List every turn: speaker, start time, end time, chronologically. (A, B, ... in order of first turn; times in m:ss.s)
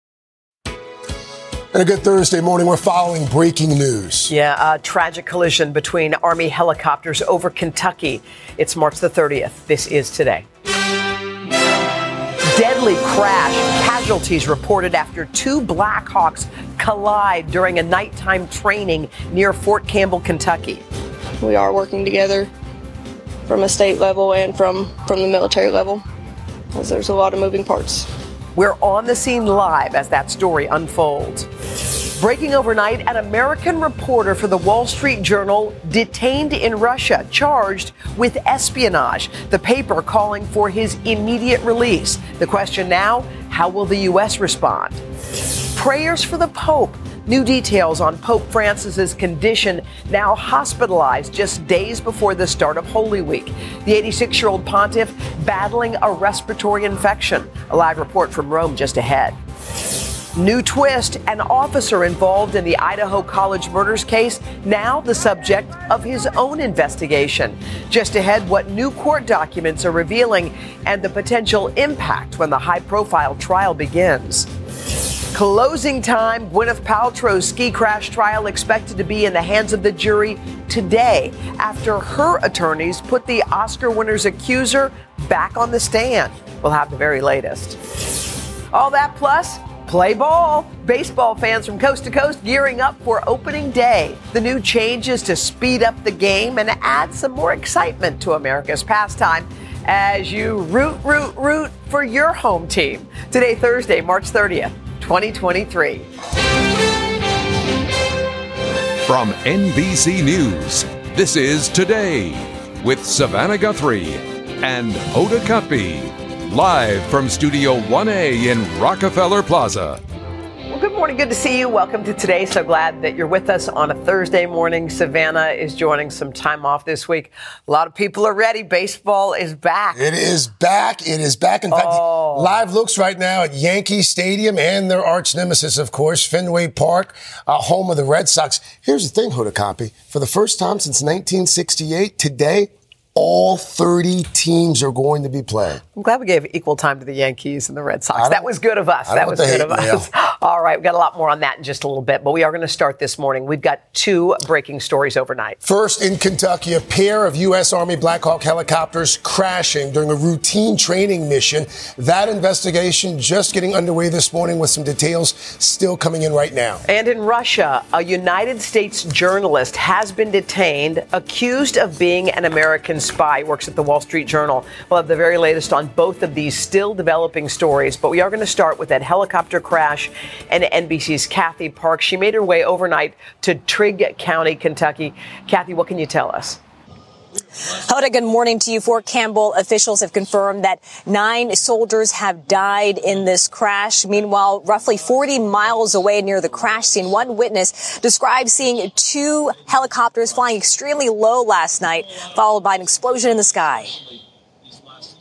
0:01.7-0:04.3 A
0:04.3-0:10.4 B
0:12.5-0:20.8 B
0:21.4-0:22.5 C
0:23.5-0:26.0 C
0:26.7-0:28.1 C
0:28.5-0:31.5 B
0:32.2-0:45.0 B
0:45.7-0:59.4 B
1:00.3-1:14.5 B
1:15.3-1:27.8 B
1:28.7-1:46.1 B
1:49.1-2:00.0 D
2:00.7-2:10.0 B
2:09.9-2:25.8 A
2:11.7-2:12.6 B
2:26.0-2:35.6 B
2:28.1-2:28.5 A
2:29.0-2:30.1 A
2:35.6-2:46.8 A
2:46.8-3:06.6 B
3:07.8-3:24.0 E